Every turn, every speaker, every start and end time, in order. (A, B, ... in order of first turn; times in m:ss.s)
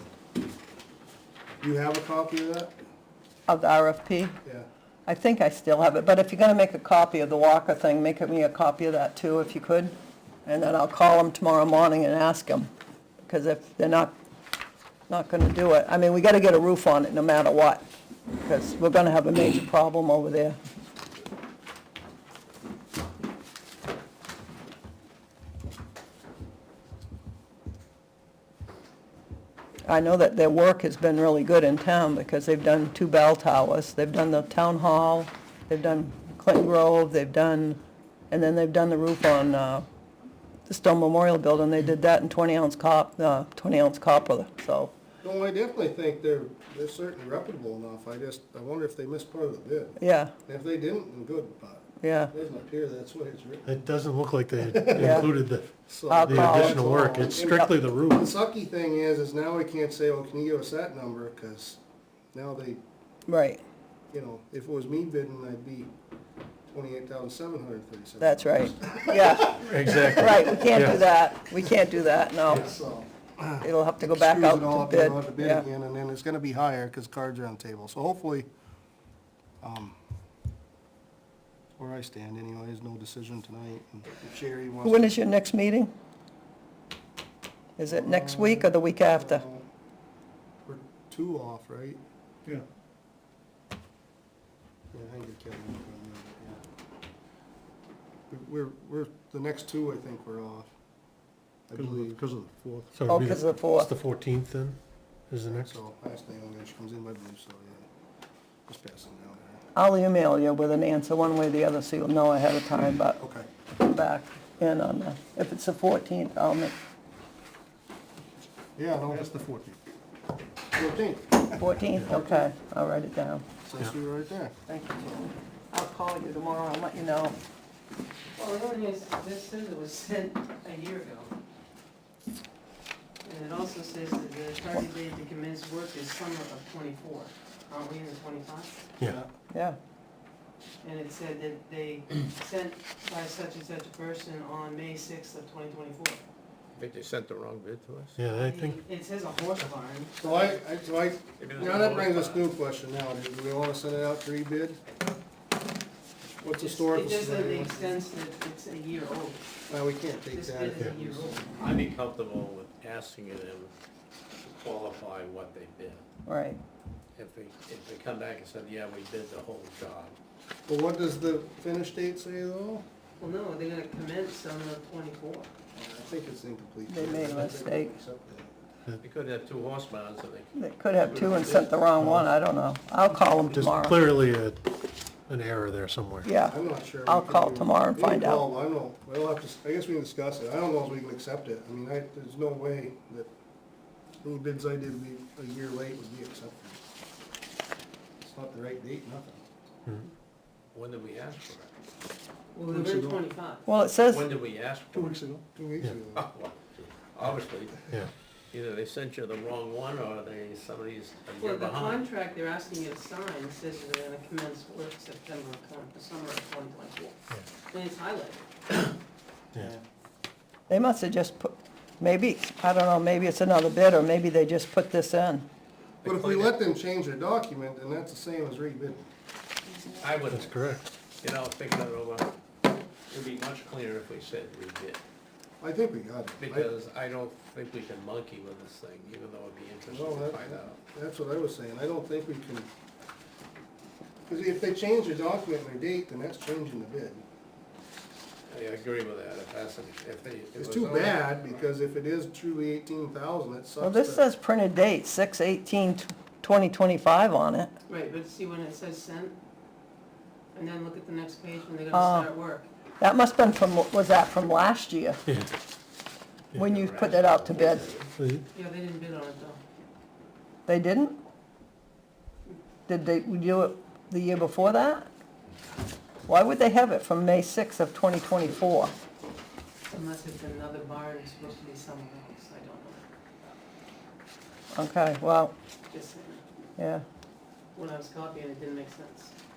0:01.6-0:02.7 A
0:03.5-0:04.4 B
0:05.0-0:09.9 B
0:10.4-0:12.7 B
0:13.2-0:14.1 B
0:15.1-0:17.8 B
0:18.4-0:20.6 B
0:29.8-0:39.8 B
0:40.6-0:44.9 B
0:45.2-0:53.7 A
0:50.0-0:50.3 B
0:52.0-0:52.3 B
0:53.6-0:58.3 C
0:54.7-0:55.3 A
0:54.9-0:55.2 B
0:55.9-1:01.8 A
0:56.1-0:56.9 B
1:02.3-1:02.8 A
1:03.3-1:03.6 B
1:04.1-1:05.9 A
1:06.7-1:11.0 A
1:08.2-1:12.7 B
1:09.6-1:11.0 C
1:09.6-1:10.3 D
1:12.4-1:18.5 A
1:13.6-1:15.6 B
1:19.6-1:20.0 A
1:21.8-1:25.2 A
1:24.8-1:25.9 B
1:27.8-1:29.4 B
1:27.8-1:29.6 A
1:30.6-1:32.0 A
1:34.9-1:36.6 A
1:38.3-1:40.7 A
1:41.7-1:42.2 A
1:41.8-1:45.8 C
1:43.1-1:43.9 B
1:45.5-1:47.8 A
1:48.7-1:49.6 A
1:49.7-1:53.2 B
1:53.2-1:53.5 A
1:53.8-1:56.7 B
1:58.8-1:59.8 A
2:00.7-2:02.5 A
2:01.6-2:03.4 B
2:03.6-2:04.6 A
2:04.7-2:07.4 B
2:08.4-2:11.3 E
2:13.2-2:18.8 E
2:19.0-2:19.2 C
2:19.0-2:19.3 A
2:19.5-2:19.8 B
2:20.8-2:26.2 E
2:26.7-2:28.2 D
2:28.2-2:28.8 C
2:28.4-2:30.6 E
2:30.2-2:34.8 A
2:31.4-2:32.4 D
2:36.4-2:38.0 A
2:36.5-2:39.6 E
2:39.7-2:41.4 A
2:40.3-2:41.5 E
2:41.6-2:43.7 D
2:44.4-2:46.0 D
2:46.2-2:46.6 B
2:47.2-2:50.1 D
2:50.7-2:52.8 A
2:53.2-2:55.5 E
2:55.7-2:58.5 A
2:56.9-2:57.9 B
2:59.0-3:01.7 D
3:00.6-3:04.0 B
3:02.0-3:02.3 C
3:03.5-3:04.6 C
3:05.3-3:06.3 C
3:06.2-3:08.4 B
3:06.4-3:13.3 A
3:14.2-3:16.8 A
3:18.2-3:19.4 A
3:20.7-3:21.7 D
3:22.5-3:23.6 E
3:22.7-3:23.2 A
3:23.6-3:24.3 B
3:24.1-3:25.2 D
3:24.9-3:26.2 A
3:26.1-3:27.9 D
3:28.5-3:32.1 D
3:31.4-3:38.9 E
3:39.6-3:39.8 A
3:40.7-3:45.4 B
3:46.0-3:46.5 D
3:46.0-3:49.1 A
3:50.0-3:50.6 D
3:50.3-3:50.9 C
3:51.2-3:52.3 D
3:53.1-3:55.0 D
3:55.6-3:56.7 A
3:56.4-4:00.8 D
3:59.9-4:02.7 A
4:04.2-4:07.2 A
4:08.5-4:11.5 D
4:10.6-4:14.2 A
4:13.8-4:17.7 B
4:17.9-4:19.4 E
4:20.5-4:22.7 E
4:21.9-4:22.3 B
4:23.0-4:25.2 B
4:25.2-4:25.5 C
4:26.5-4:27.9 B
4:26.6-4:28.1 D
4:28.2-4:28.4 C
4:28.5-4:29.6 E
4:30.6-4:31.2 B
4:32.9-4:35.1 B
4:36.3-4:38.9 B
4:39.9-4:43.1 E
4:44.7-4:45.5 B
4:45.9-4:46.4 E
4:46.8-4:47.0 B
4:47.7-4:49.3 E